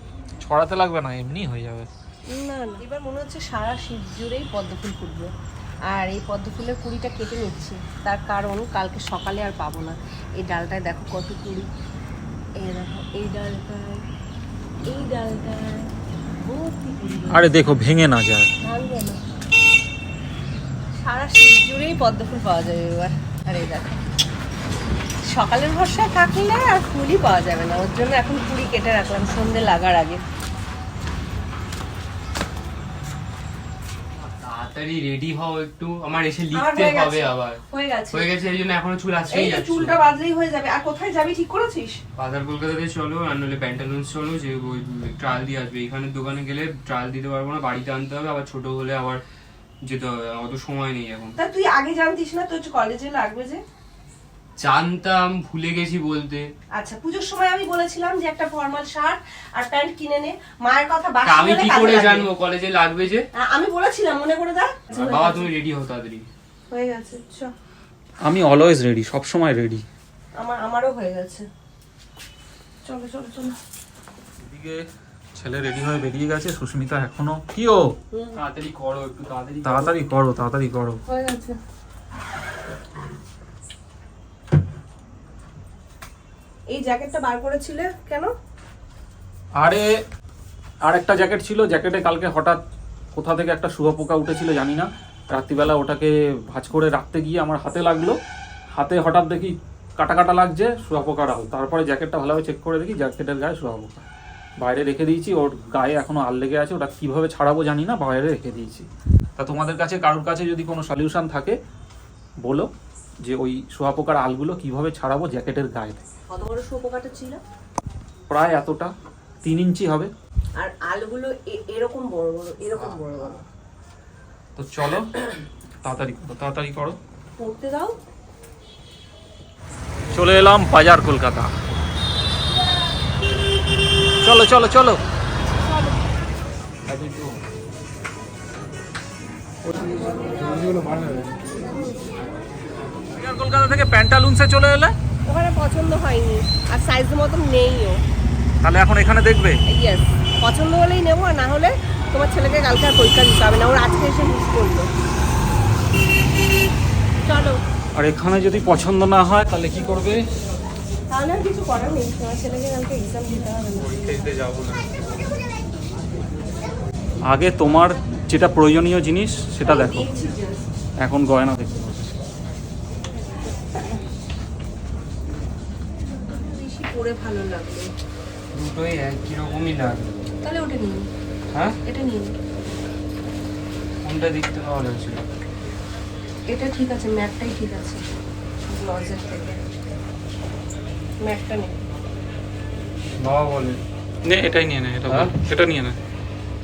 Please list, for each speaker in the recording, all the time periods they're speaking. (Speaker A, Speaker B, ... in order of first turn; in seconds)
Speaker A: 0.4-1.9, 17.3-18.5, 68.2-69.8, 74.4-74.8, 75.4-77.9, 79.6-81.0, 89.6-89.9, 90.9-92.6, 93.2-98.2, 98.7-104.1, 104.6-111.6, 112.4-112.7, 113.2-116.0, 118.3-118.9, 119.4-120.1, 122.8-123.3, 124.5-125.1, 125.8-127.0, 130.1-131.5, 134.2-135.0, 143.1-144.9, 148.6-149.6, 158.0-160.2, 167.3-170.1, 171.0-172.3, 194.2-196.0
Speaker B: 2.3-5.3, 5.9-11.7, 12.6-14.0, 14.9-15.9, 16.4-17.6, 18.6-19.2, 20.9-24.0, 25.3-30.2, 36.5-38.3, 39.3-42.0, 51.4-53.6, 56.8-62.3, 63.4-65.5, 66.7-67.5, 70.4-71.5, 72.8-73.5, 78.1-78.4, 81.1-81.6, 86.7-88.3, 116.3-117.4, 120.6-123.4, 127.4-128.0, 139.9-140.7, 141.7-141.9, 145.3-148.0, 149.7-154.9, 157.2-157.6, 161.1-163.9, 169.6-170.6, 173.3-174.0, 176.2-177.9, 180.4-181.1, 181.8-182.3, 186.5-188.0, 188.7-189.6, 191.2-191.7
Speaker C: 34.1-40.0, 42.2-49.2, 49.8-51.4, 54.6-56.5, 61.2-63.3, 64.9-66.3, 78.3-79.9, 136.9-137.4, 163.8-165.4, 178.5-180.1, 181.5-181.8, 184.1-185.2, 193.2-193.8, 195.1-195.3